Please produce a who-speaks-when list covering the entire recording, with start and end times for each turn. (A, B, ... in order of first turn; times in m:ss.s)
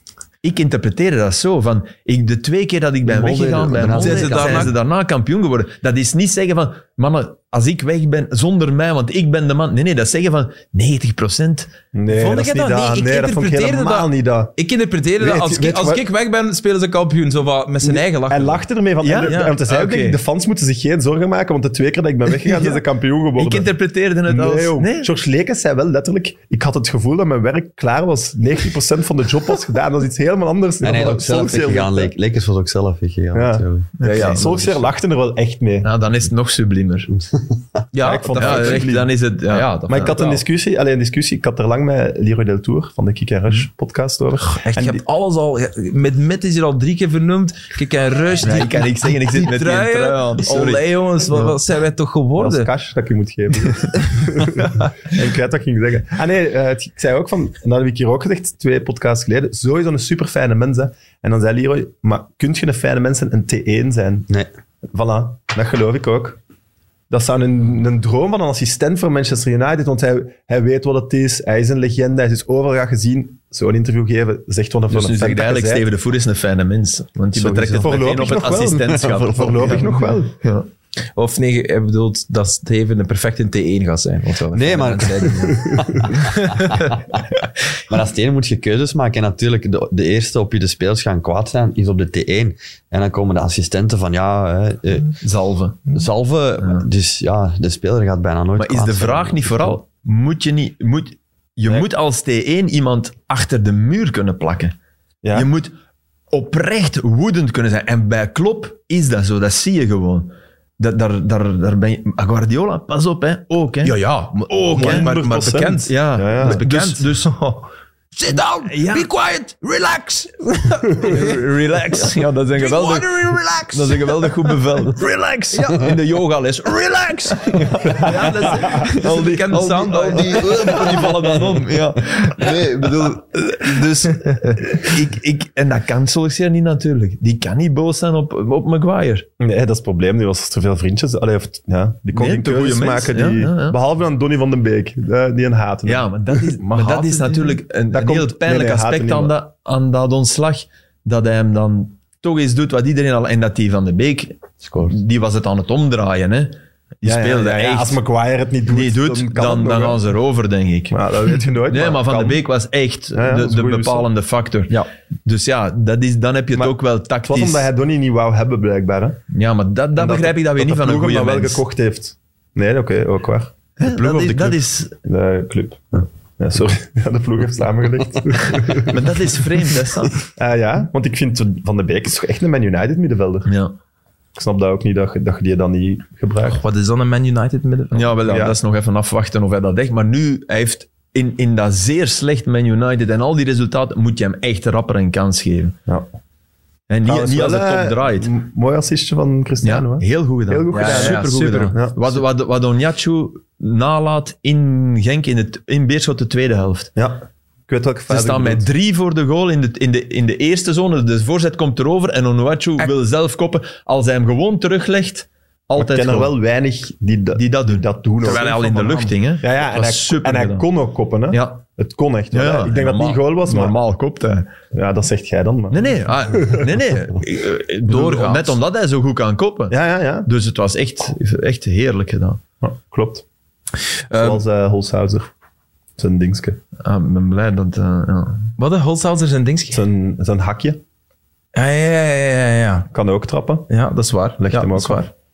0:00.4-0:11.7 A
0:03.0-0:04.7 B
0:03.9-0:04.7 C
0:11.9-0:14.5 D
0:12.1-0:18.6 C
0:15.2-0:16.0 D
0:17.8-0:23.7 D
0:19.0-0:20.2 A
0:19.2-0:19.6 C
0:22.4-0:22.8 A
0:23.4-0:25.1 A
0:24.2-0:32.1 D
0:30.8-0:33.9 B
0:33.3-0:35.9 D
0:34.0-0:34.8 A
0:34.0-0:34.6 C
0:35.8-0:37.1 A
0:37.1-0:37.6 B
0:37.9-0:38.9 C
0:38.0-0:45.0 D
0:38.4-0:40.4 A
0:44.4-0:52.7 C
0:48.4-0:51.5 A
0:52.4-1:04.3 D
0:54.6-0:54.8 C
1:04.9-1:06.4 D
1:07.1-1:15.8 D
1:14.9-1:20.7 A
1:17.3-1:20.3 D
1:21.2-1:27.0 C
1:24.5-1:35.2 B
1:35.2-1:35.9 A
1:35.9-1:39.8 B
1:38.6-1:44.7 A
1:45.2-1:45.5 D
1:45.3-1:45.7 A
1:46.3-1:54.0 A
1:53.8-2:05.9 C
1:54.5-1:55.1 A
1:54.7-1:56.6 D
1:55.9-1:57.3 A
1:58.6-1:59.1 A
2:01.0-2:19.3 A
2:07.4-2:11.6 C
2:07.9-2:09.6 D
2:14.2-2:14.6 C
2:19.4-2:26.4 D
2:22.1-2:23.8 A
2:25.8-2:38.0 A
2:26.6-2:27.6 C
2:27.9-2:29.3 D
2:37.0-2:40.0 D
2:38.7-2:41.0 A
2:40.9-2:42.4 D
2:41.7-2:47.7 A
2:43.1-2:44.1 D
2:47.3-2:49.2 D
2:49.3-2:51.6 A
2:50.0-2:59.1 D
2:53.8-2:54.9 A
2:58.6-3:00.2 A
3:00.4-3:03.5 D
3:03.5-3:03.8 A
3:04.4-3:06.6 D
3:06.5-3:08.2 C
3:07.9-3:15.8 A
3:08.2-3:08.6 D
3:16.9-3:18.3 A
3:17.0-3:22.2 D
3:19.6-3:26.9 A
3:20.7-3:21.7 C
3:27.0-3:28.6 D
3:28.1-3:36.3 A
3:35.8-3:38.4 D
3:37.4-3:40.6 A
3:38.2-3:39.1 C
3:39.4-3:43.8 D
3:41.3-3:41.6 A
3:42.3-3:44.5 A
3:44.7-3:46.7 D
3:45.7-3:52.4 A
3:47.9-3:48.6 C
3:49.7-3:50.3 D
3:52.6-3:53.2 D
3:54.1-3:54.4 C
3:54.1-3:55.3 D
3:56.0-3:56.6 D
3:56.8-3:58.6 A
3:58.6-3:59.8 C
3:59.7-4:00.8 D
4:01.5-4:02.9 C
4:02.9-4:03.7 D
4:03.7-4:05.1 C
4:04.4-4:05.1 D